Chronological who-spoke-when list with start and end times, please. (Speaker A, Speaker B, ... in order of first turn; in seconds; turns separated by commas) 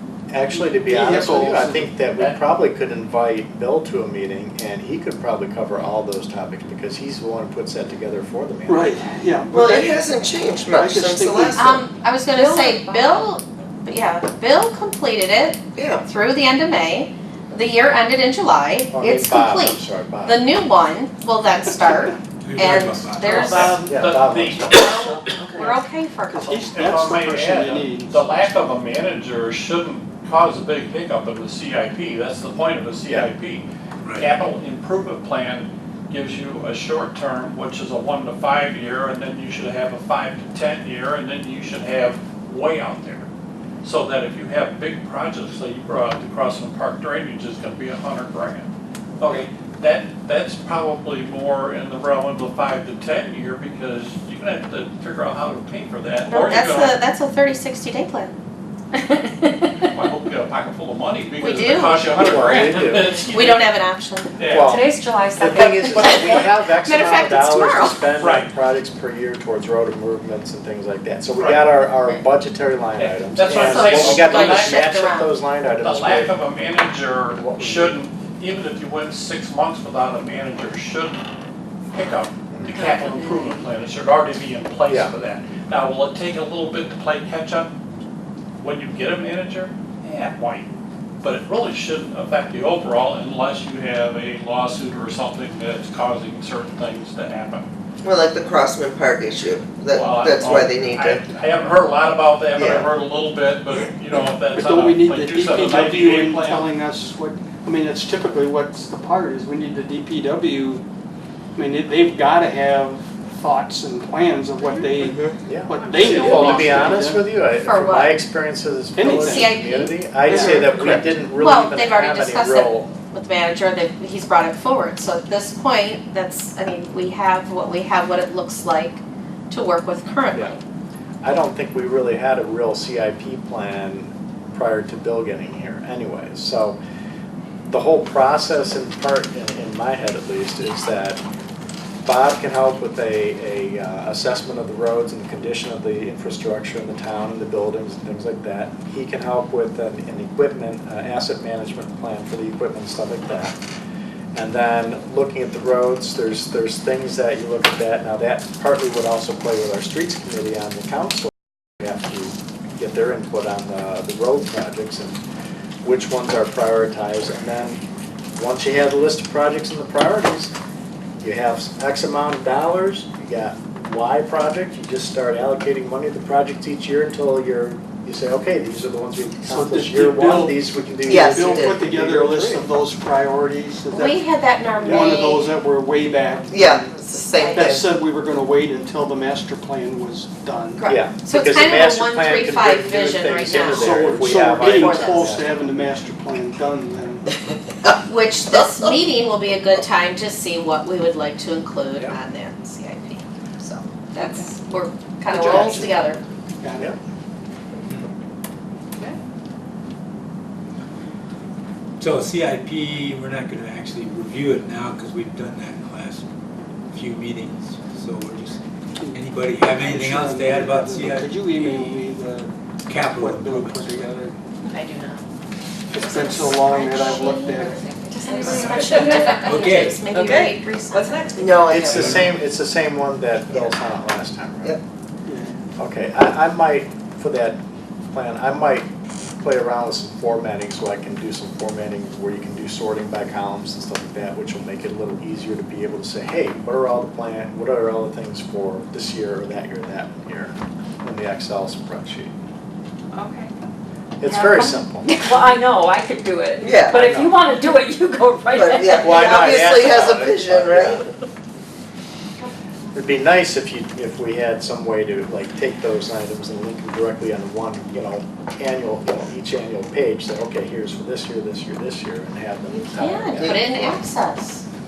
Speaker A: 0.3-9.0, Speaker B: 0.6-1.9, Speaker C: 2.1-2.4, Speaker B: 8.7-10.0, Speaker D: 9.5-11.8, Speaker B: 10.8-11.6, Speaker E: 11.6-23.9, Speaker F: 12.3-13.3, Speaker D: 15.8-16.0, Speaker A: 18.9-20.4, Speaker G: 22.4-23.8, Speaker C: 23.3-25.3, Speaker A: 23.8-24.8, Speaker E: 24.7-26.9, Speaker B: 25.3-28.5, Speaker C: 26.7-43.3, Speaker G: 34.0-34.3, Speaker C: 43.8-48.7, Speaker C: 49.2-57.0, Speaker E: 56.3-58.3, Speaker F: 59.0-59.8, Speaker C: 59.9-63.8, Speaker E: 61.4-64.4, Speaker A: 61.8-63.1, Speaker C: 64.4-64.7, Speaker A: 64.4-76.4, Speaker F: 64.6-66.5, Speaker E: 65.8-68.0, Speaker C: 68.1-68.5, Speaker C: 71.4-71.7, Speaker C: 73.0-74.9, Speaker E: 73.5-75.3, Speaker C: 75.8-81.2, Speaker A: 77.3-78.0, Speaker C: 81.9-87.7, Speaker E: 82.8-83.6, Speaker A: 84.9-85.1, Speaker C: 88.6-90.7, Speaker C: 91.2-97.7, Speaker D: 98.0-101.2, Speaker C: 99.9-106.7, Speaker D: 102.6-102.9, Speaker B: 104.5-110.8, Speaker B: 111.5-117.3, Speaker D: 115.0-115.4, Speaker A: 115.5-122.9, Speaker F: 115.8-116.0, Speaker C: 116.0-116.9, Speaker E: 117.6-118.2, Speaker B: 119.0-119.5, Speaker E: 119.2-120.0, Speaker B: 120.3-120.7, Speaker D: 120.3-121.0, Speaker E: 121.3-130.6, Speaker A: 131.2-136.8, Speaker A: 137.7-141.2, Speaker A: 142.1-153.6, Speaker A: 154.3-165.2, Speaker A: 165.8-167.8, Speaker A: 168.3-170.5, Speaker A: 171.2-182.7, Speaker B: 179.4-184.2, Speaker D: 181.1-181.8, Speaker E: 183.9-185.6, Speaker B: 184.8-186.9, Speaker A: 184.8-185.2, Speaker D: 186.5-187.9, Speaker E: 187.3-187.6, Speaker B: 187.5-190.9, Speaker E: 190.8-195.4, Speaker A: 190.9-195.5, Speaker B: 193.7-197.3, Speaker E: 198.1-206.2, Speaker F: 204.2-204.5, Speaker B: 205.3-205.9, Speaker D: 205.4-205.9, Speaker B: 206.6-206.9, Speaker G: 212.0-216.2, Speaker G: 216.9-218.6, Speaker B: 219.0-224.4, Speaker G: 219.1-222.1, Speaker G: 222.9-224.1, Speaker E: 224.6-225.2, Speaker B: 225.9-227.8, Speaker E: 225.9-231.4, Speaker F: 227.6-232.1, Speaker G: 229.3-230.1, Speaker D: 230.1-230.5, Speaker D: 231.3-232.0, Speaker A: 231.7-234.8, Speaker G: 231.8-232.3, Speaker B: 235.3-235.6, Speaker A: 235.8-237.6, Speaker A: 238.1-238.9, Speaker A: 239.4-252.3, Speaker F: 253.1-253.5, Speaker A: 254.2-255.3, Speaker F: 254.2-259.3, Speaker D: 256.6-257.0, Speaker A: 256.9-257.4, Speaker D: 258.5-261.1, Speaker A: 259.0-261.1, Speaker A: 262.9-274.1, Speaker E: 272.7-274.6